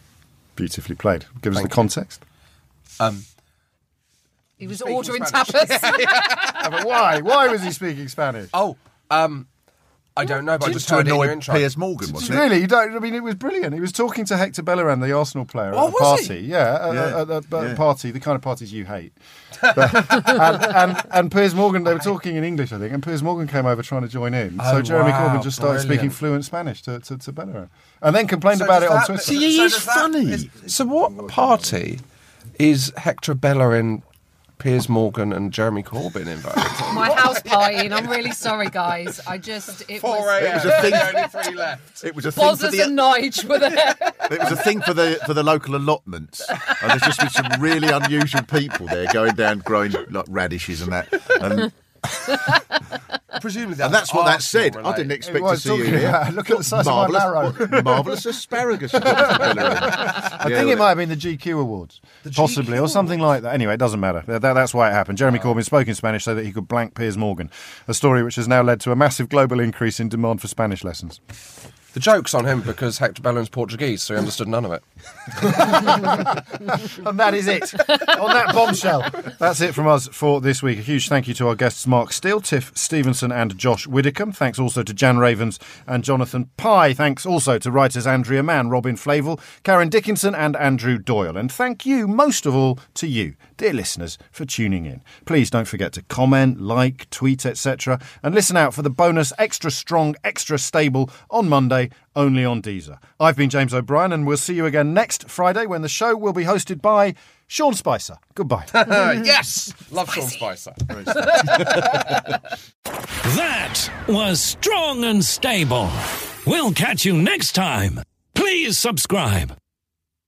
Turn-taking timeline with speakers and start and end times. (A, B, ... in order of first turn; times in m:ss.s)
0:00.6-0:02.2 A
0:01.5-0:01.9 B
0:03.0-0:03.2 B
0:04.6-0:06.6 C
0:04.6-0:06.6 B
0:06.6-0:08.5 A
0:08.5-0:09.5 B
0:10.1-0:11.7 B
0:10.5-0:12.5 D
0:12.1-0:29.4 A
0:15.7-0:16.4 B
0:16.9-0:17.8 D
0:24.6-0:26.2 B
0:28.5-0:32.0 B
0:29.2-0:30.5 D
0:32.6-0:34.0 B
0:34.6-0:38.1 B
0:36.9-0:41.2 C
0:40.0-0:42.0 B
0:40.4-0:43.2 D
0:42.3-0:44.7 C
0:44.3-0:51.8 D
0:52.3-0:52.8 C
0:53.4-0:55.2 B
0:53.8-1:00.9 D
0:55.3-0:58.2 A
0:59.0-1:11.2 A
1:02.2-1:03.2 B
1:05.3-1:05.5 B
1:11.9-1:16.1 B
1:15.5-1:48.8 A
1:48.7-1:52.1 B
1:50.9-1:51.9 D
1:53.2-1:59.5 E